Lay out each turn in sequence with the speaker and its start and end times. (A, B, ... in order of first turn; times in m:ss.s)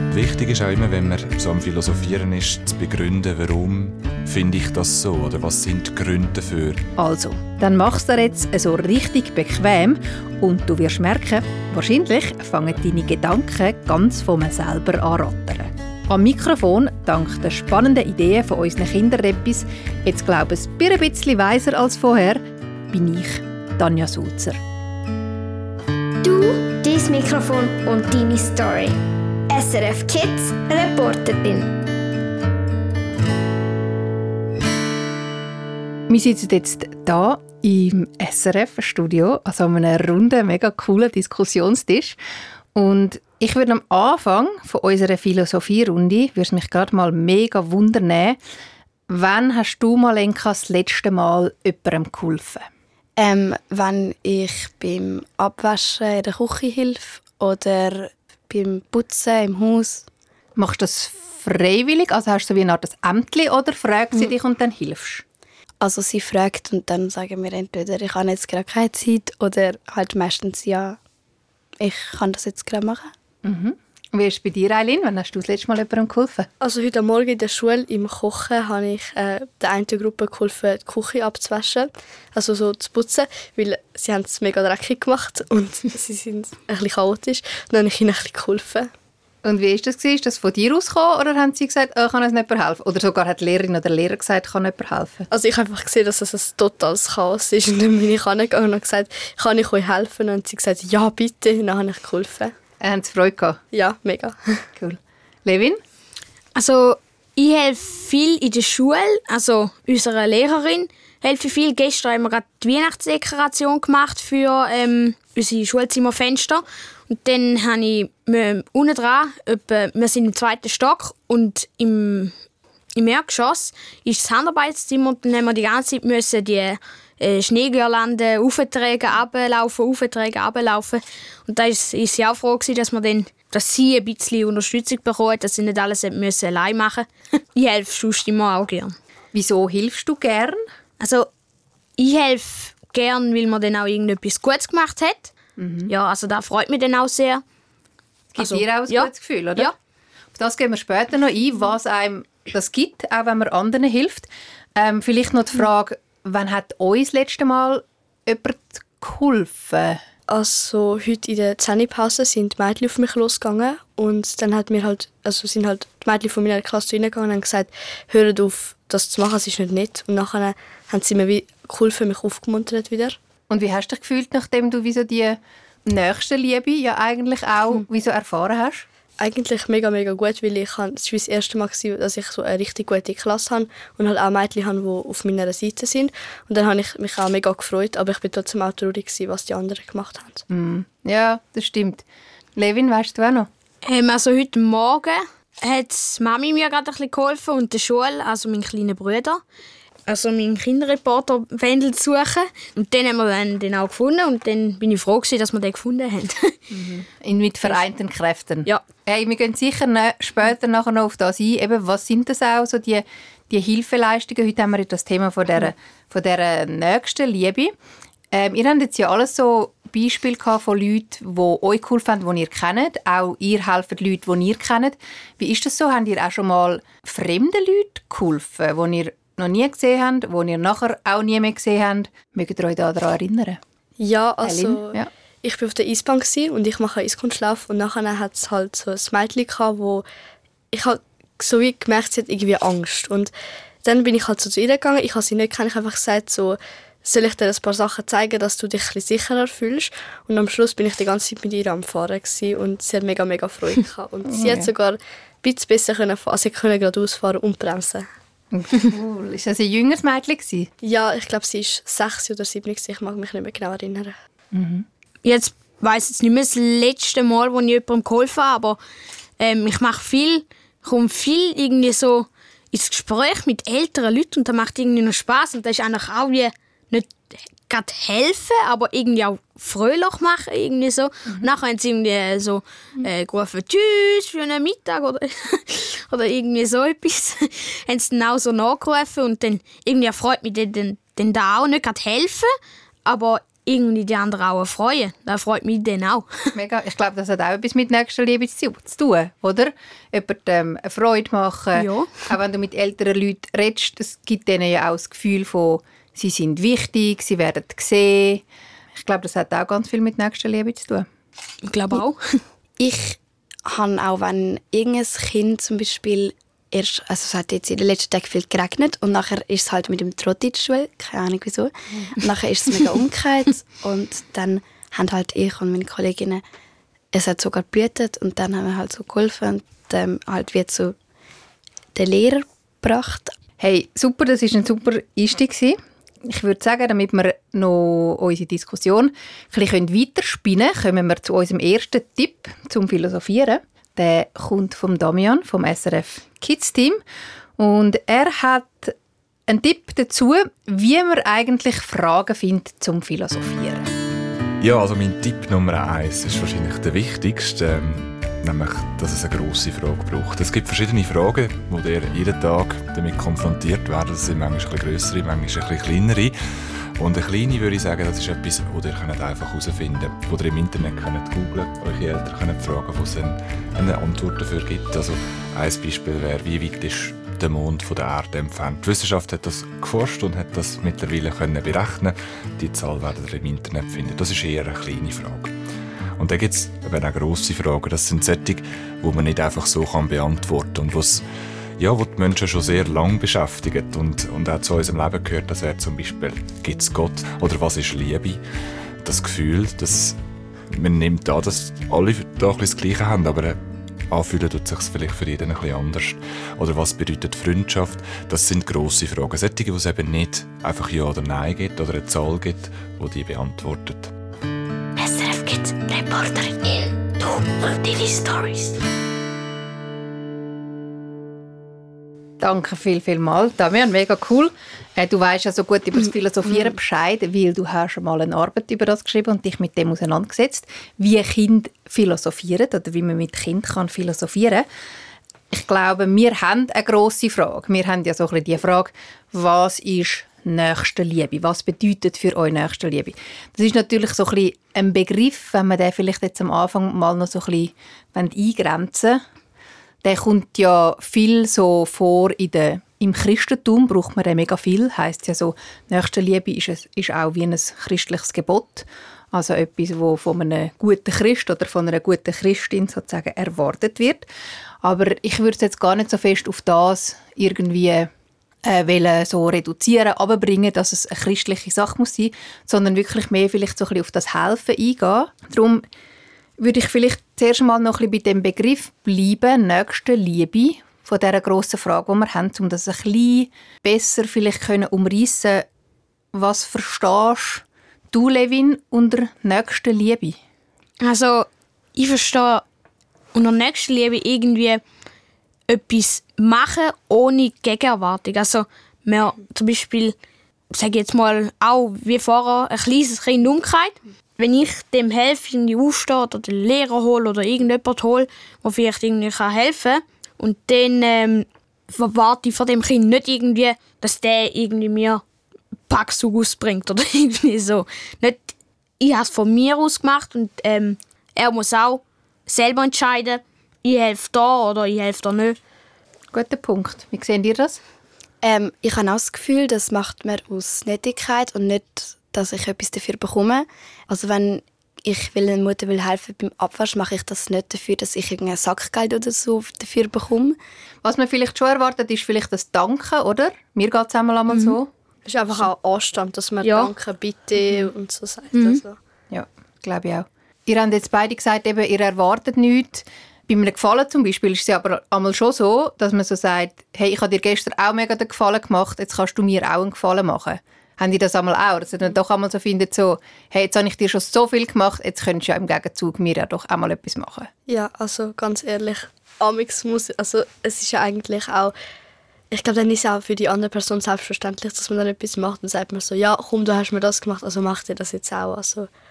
0:00.1-0:06.8 A
0:07.0-0:24.6 B
0:26.2-0:29.0 C
0:29.5-0:31.8 C
0:36.1-0:42.2 B
0:42.7-0:48.4 B
0:49.1-0:52.7 B
0:53.2-1:00.1 D
1:00.6-1:05.2 B
1:05.8-1:11.0 D
1:11.8-1:13.1 D
1:13.4-1:16.5 B
1:16.6-1:28.9 E
1:29.4-1:35.3 B
1:35.3-1:42.5 E
1:42.8-1:43.6 B
1:43.7-1:44.7 E
1:44.8-1:45.8 B
1:46.6-2:02.3 F
2:03.0-2:18.9 F
2:19.3-2:20.6 B
2:21.0-2:21.3 F
2:22.0-2:25.3 F
2:25.6-2:25.9 B
2:25.9-2:27.4 F
2:28.3-2:29.7 B
2:28.4-2:29.7 F
2:30.3-2:40.0 B
2:40.3-2:53.2 E
2:53.5-2:58.9 B
2:59.2-3:10.4 E
3:10.5-3:12.0 B
3:12.6-3:13.5 B
3:13.8-3:19.4 F
3:20.1-3:26.6 F
3:26.7-3:37.7 B
3:38.3-3:53.6 B
3:54.0-4:00.0 E
3:54.4-3:55.1 B
4:00.7-4:03.3 E
4:03.8-4:18.1 E
4:14.3-4:14.7 B
4:18.5-4:20.7 B
4:20.8-4:24.1 E
4:24.5-4:24.9 B
4:25.2-4:28.8 F
4:29.4-4:52.5 F
4:53.1-4:56.4 F
4:56.6-5:11.1 B
5:01.7-5:02.3 F
5:11.6-5:12.4 F
5:12.8-5:26.4 D
5:27.1-5:31.0 D
5:32.0-5:33.4 D
5:33.6-5:47.0 B
5:47.6-5:49.0 B
5:49.5-5:53.9 B
5:54.6-6:06.4 A
6:07.0-6:25.5 A
6:26.2-6:31.2 A
6:31.8-6:38.4 A
6:39.0-6:40.2 A
6:40.7-6:43.6 A
6:44.1-6:54.1 A
6:55.0-6:58.8 C
7:02.4-7:14.7 B
7:15.5-7:29.2 B
7:30.0-7:44.3 B
7:44.8-7:48.1 B
7:48.6-7:55.8 B
7:56.6-8:05.7 B
8:06.3-8:10.4 B
8:11.0-8:12.6 F
8:13.3-8:14.8 F
8:15.7-8:20.2 F
8:20.7-8:35.2 F
8:35.9-8:38.5 F
8:39.0-8:45.6 F
8:46.3-8:47.8 B
8:48.4-9:00.6 D
9:01.0-9:04.9 B
9:04.5-9:04.8 F
9:05.3-9:09.0 E
9:06.6-9:06.9 F
9:08.5-9:08.8 F
9:09.3-9:27.5 B
9:27.7-9:31.7 E
9:32.5-9:38.9 E